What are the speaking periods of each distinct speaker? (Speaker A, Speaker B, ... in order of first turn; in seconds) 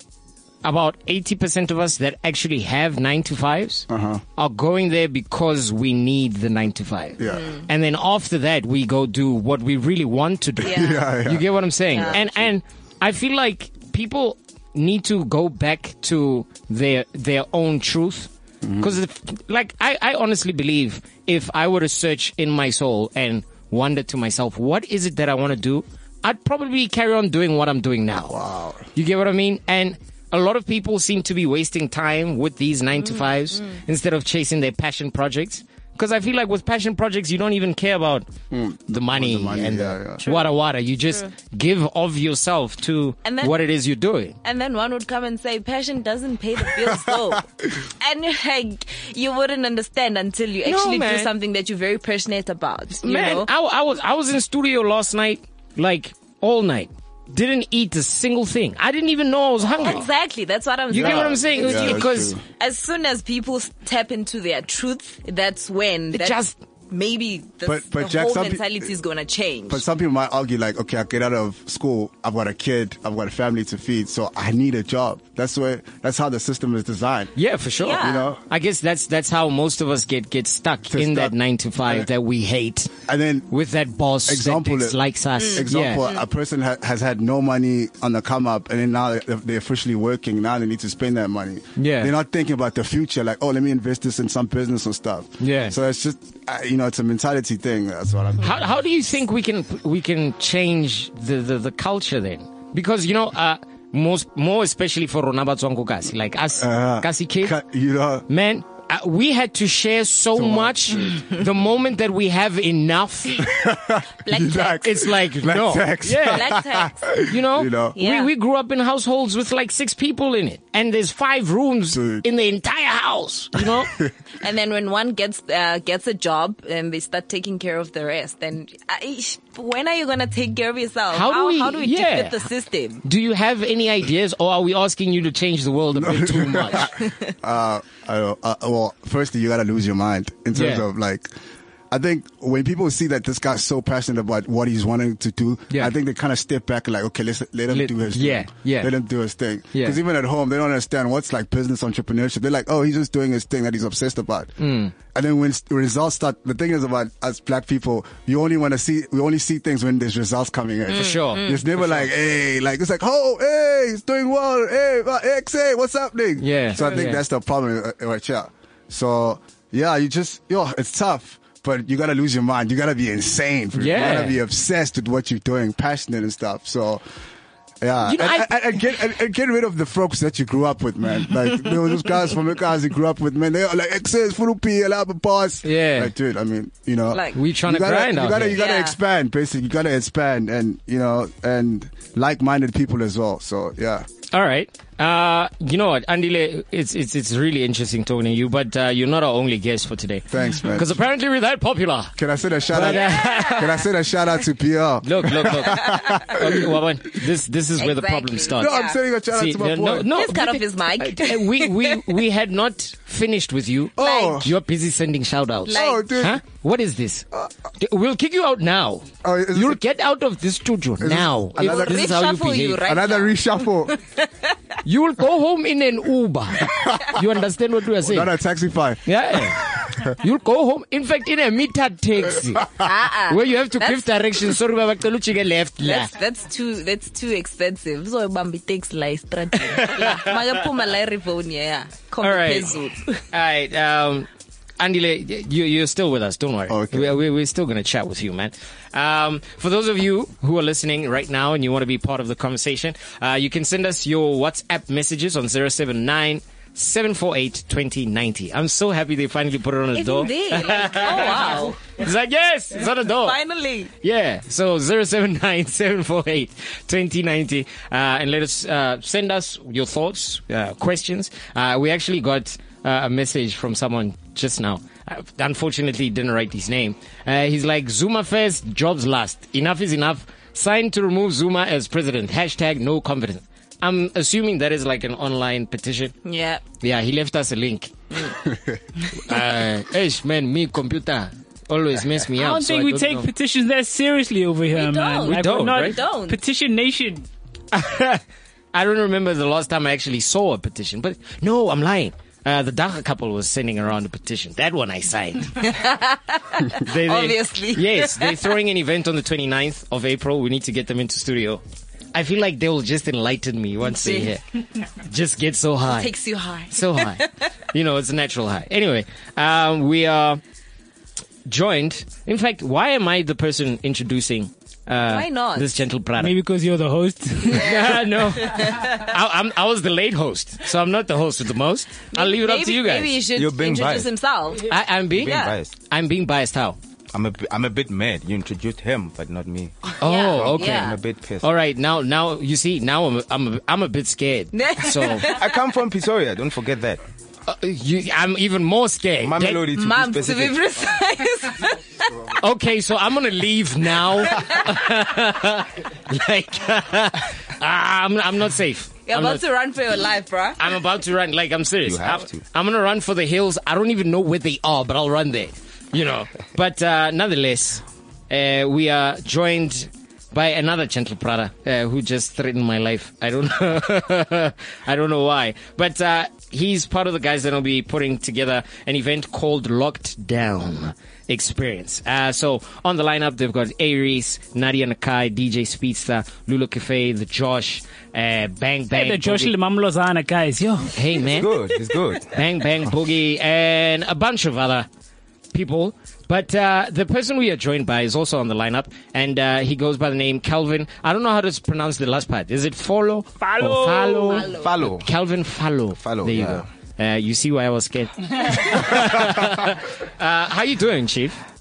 Speaker A: 0.6-28.4, 28.9-38.2, 38.9-44.4, 50.6-51.3, 53.0-60.1, 60.9-62.3, 66.1-66.5, 77.3-82.9, 83.5-86.0, 91.8-92.1, 95.4-95.7, 98.4-107.6, 108.3-113.5, 114.8-116.5, 117.2-124.0, 131.1-132.5, 133.0-136.9, 140.5-140.8, 147.7-148.9, 149.7-150.0, 154.6-154.9, 160.9-162.1, 166.4-167.2, 173.8-174.4, 178.0-178.5, 185.6-186.1, 187.3-188.6, 194.3-202.1, 202.7-203.8, 205.0-217.3, 217.8-222.8, 224.8-228.3, 229.1-232.7, 233.3-236.1, 239.7-240.6, 242.2-242.7, 243.3-244.3, 244.8-263.4, 264.0-286.1, 286.8-288.4, 289.2-293.3, 295.3-296.0, 297.7-298.2, 298.7-305.7, 306.7-311.6, 312.1-314.4, 315.0-316.1, 316.7-320.4, 321.4-326.4, 327.4-333.2, 334.6-336.8, 340.0-345.4, 347.5-349.7, 352.3-359.4, 360.6-389.5, 390.9-391.5, 392.2-394.9, 395.5-411.4
Speaker B: 3.9-4.2, 7.2-7.5, 10.6-12.4, 18.6-19.0, 28.3-28.9, 38.5-40.2, 46.6-47.4, 60.9-62.4, 67.6-68.9, 69.7-77.3, 78.0-78.4, 80.9-81.3, 83.1-83.5, 84.3-85.0, 85.5-98.6, 106.6-108.2, 110.3-111.3, 113.4-118.0, 121.9-122.2, 123.6-124.1, 135.9-141.3, 141.9-154.5, 155.1-177.0, 177.8-194.1, 200.3-201.0, 202.2-207.3, 208.6-210.1, 214.0-214.5, 215.7-216.4, 219.2-219.8, 221.0-222.1, 222.8-223.9, 226.6-227.4, 228.0-230.1, 246.7-247.2
Speaker C: 7.3-7.6, 10.6-11.0, 11.9-12.2, 33.0-33.6, 40.2-40.5, 43.2-43.5, 44.4-53.5, 59.8-69.8, 77.8-78.3, 85.4-86.2, 114.2-114.9, 116.2-117.1, 118.0-118.3, 124.4-133.0, 136.9-137.2, 160.9-161.6, 187.1-187.4, 188.5-189.0, 202.8-203.7, 205.8-206.2, 207.8-209.0, 210.1-212.2, 214.0-214.4, 215.7-216.2, 221.6-224.5, 232.8-234.5, 235.8-243.2, 259.9-261.9, 263.0-263.9, 286.2-286.6, 294.7-296.4, 305.6-308.5, 313.9-314.3, 315.9-317.3, 325.1-325.7, 327.5-329.0, 332.1-334.7, 335.2-335.5, 340.0-341.0, 344.5-345.6, 349.7-352.3, 354.1-354.7, 359.1-360.7, 404.3-404.7
Speaker D: 292.3-297.3, 326.2-327.8, 388.9-391.0, 403.4-404.5
Speaker E: 333.3-334.1, 335.1-335.7, 337.1-341.5, 345.2-347.0, 349.2-350.6, 361.8-362.4, 391.3-392.4, 404.5-405.1, 406.0-406.6